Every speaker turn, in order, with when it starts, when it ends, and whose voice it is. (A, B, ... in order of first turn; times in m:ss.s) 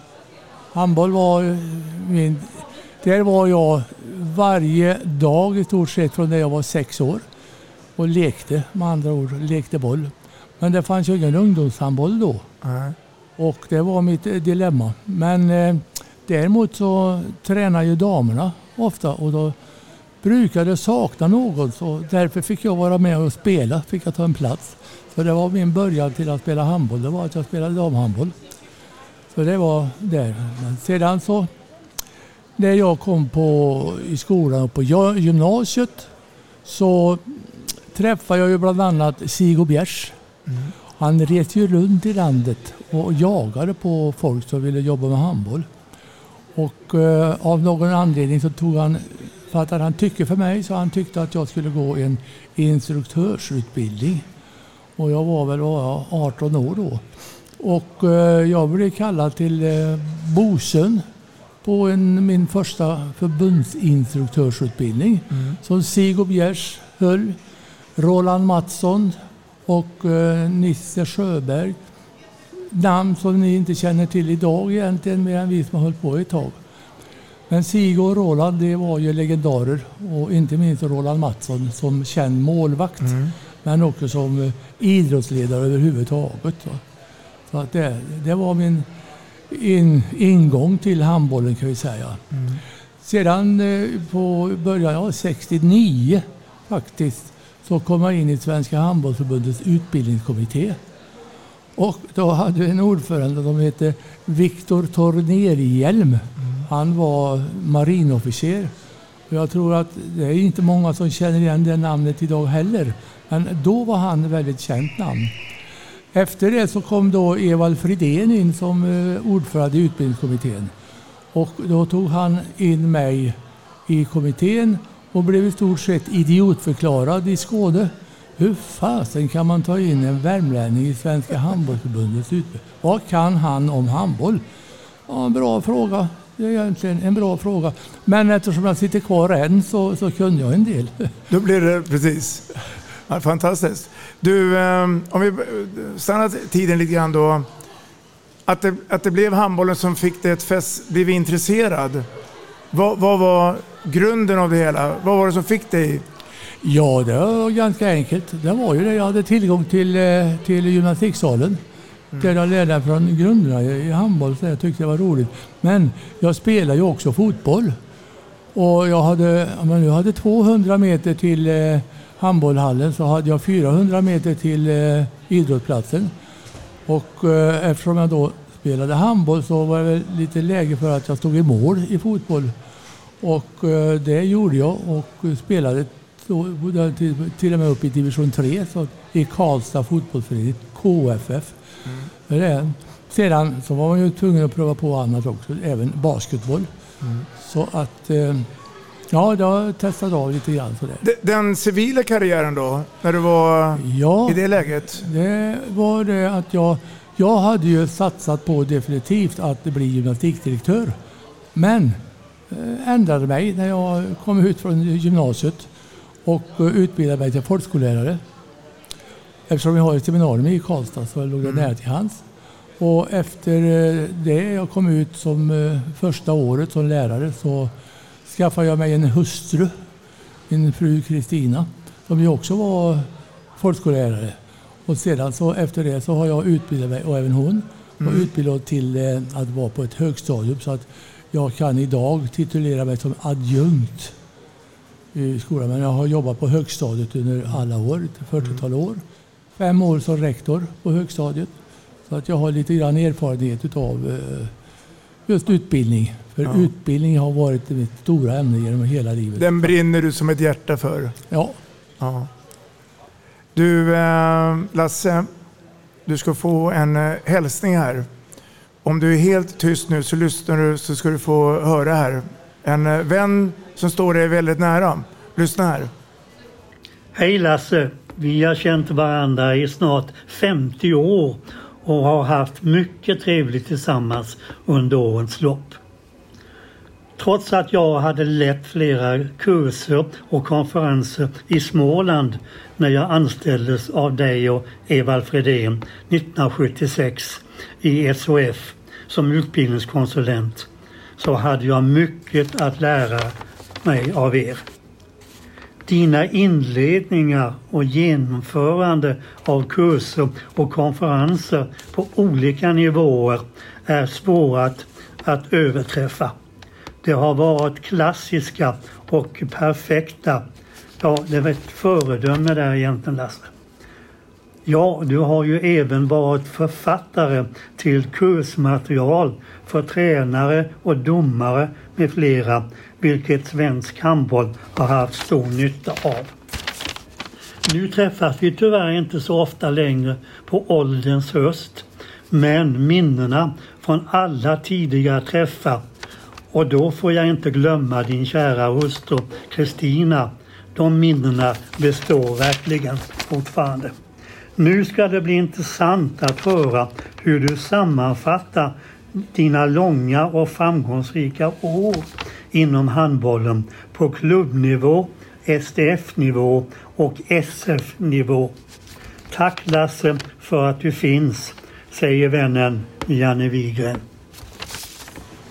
0:00.7-0:07.2 A
0:08.0-0:12.5 A
0:12.6-0:13.0 B
0:13.4-0:19.6 A
0:20.2-0:28.4 A
0:29.3-0:31.5 A
0:32.6-0:36.1 A
0:36.6-0:40.2 A
0:41.0-0:45.7 A
0:46.6-0:54.3 A
0:55.0-0:57.0 A
0:57.6-1:01.1 A
1:01.6-1:07.4 A
1:05.3-1:05.6 B
1:08.0-1:11.8 A
1:12.7-1:16.6 A
1:17.5-1:26.8 A
1:23.0-1:23.3 B
1:27.5-1:28.9 A
1:29.5-1:32.2 A
1:32.3-1:32.6 B
1:33.0-1:40.8 A
1:41.8-1:48.7 A
1:49.3-1:55.3 A
1:56.1-2:00.7 A
2:01.3-2:14.4 A
2:15.1-2:21.1 A
2:21.3-2:22.6 B
2:23.1-2:27.5 B
2:28.5-2:32.1 B
2:32.7-2:36.0 B
2:36.6-2:41.6 A
2:42.2-2:47.8 A
2:48.6-2:56.1 A
2:56.9-3:02.5 A
3:03.2-3:11.6 A
3:12.3-3:16.7 A
3:17.4-3:18.5 A
3:19.1-3:21.0 A
3:21.0-3:25.0 B
3:23.8-3:31.0 A
3:31.6-3:35.7 A
3:36.2-3:38.2 A
3:39.5-3:42.2 A
3:42.8-3:47.7 A
3:48.3-3:49.8 A
3:50.5-4:04.2 A
3:58.0-3:58.3 B
4:05.1-4:09.0 A
4:09.6-4:11.5 A
4:12.1-4:14.5 A
4:15.3-4:19.7 A
4:19.4-4:21.2 B
4:21.3-4:21.6 A
4:22.0-4:22.3 B
4:23.6-4:25.3 B
4:26.1-4:28.1 B
4:28.8-4:35.9 B
4:37.2-4:45.8 C
4:47.2-5:00.7 C
5:01.2-5:04.6 C
5:05.9-5:16.4 C
5:17.0-5:20.4 C
5:21.0-5:23.5 C
5:24.6-5:36.3 C
5:37.7-5:45.8 C
5:46.5-5:53.9 C
5:54.6-6:08.5 C
6:09.3-6:14.0 C